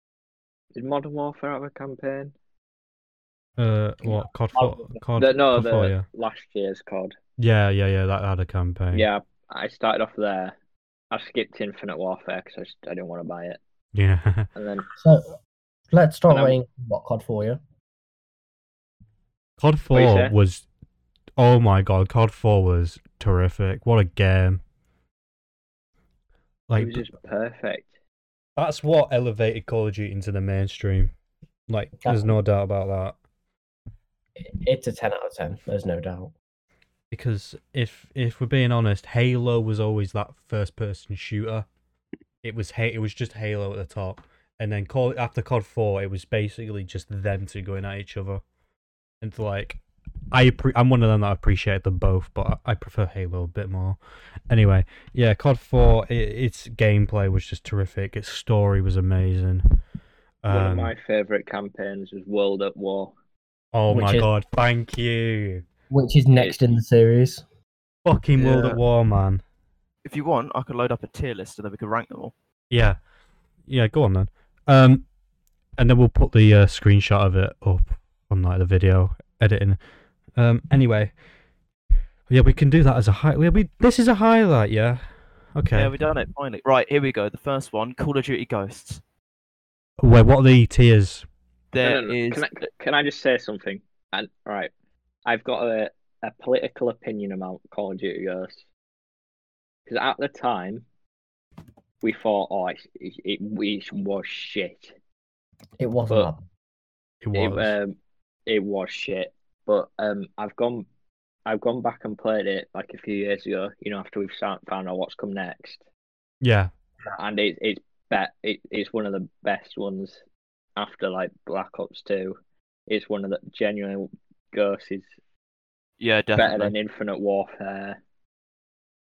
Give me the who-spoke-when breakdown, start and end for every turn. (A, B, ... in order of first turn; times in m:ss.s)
0:00.7-0:02.3 A
0:03.6-0:06.0 B
0:05.2-0:07.2 A
0:07.4-0:09.1 B
0:08.9-0:10.5 A
0:11.1-0:13.6 A
0:13.9-0:14.5 B
0:14.6-0:14.9 A
0:15.0-0:15.3 C
0:15.9-0:17.6 C
0:16.3-0:16.6 A
0:19.6-0:20.6 B
0:19.9-0:20.3 A
0:21.4-0:24.6 B
0:26.7-0:27.0 B
0:26.8-0:27.9 A
0:28.6-0:31.1 B
0:31.7-0:33.2 B
0:34.4-0:36.3 C
0:37.1-0:41.6 B
0:42.4-0:48.4 B
0:49.2-0:49.8 B
0:50.3-0:54.0 B
0:54.5-0:59.6 B
1:00.4-1:00.9 B
1:00.5-1:03.1 A
1:03.7-1:05.6 B
1:03.9-1:04.3 C
1:05.9-1:07.4 C
1:08.0-1:09.4 B
1:08.4-1:08.7 C
1:10.0-1:12.3 D
1:12.7-1:13.0 B
1:13.7-1:15.0 B
1:15.8-1:19.8 B
1:20.4-1:21.1 B
1:22.3-1:25.9 B
1:25.7-1:29.0 D
1:30.0-1:31.2 B
1:31.7-1:32.5 D
1:31.8-1:34.7 A
1:35.2-1:38.6 A
1:39.9-1:40.8 A
1:42.0-1:44.9 A
1:45.8-1:46.4 C
1:47.2-1:47.7 B
1:47.3-1:47.9 A
1:48.5-1:50.8 A
1:51.4-1:55.8 A
1:56.4-1:56.7 B
1:57.1-2:00.2 A
2:00.8-2:02.4 A
2:02.9-2:05.1 A
2:06.0-2:06.7 D
2:06.4-2:08.0 A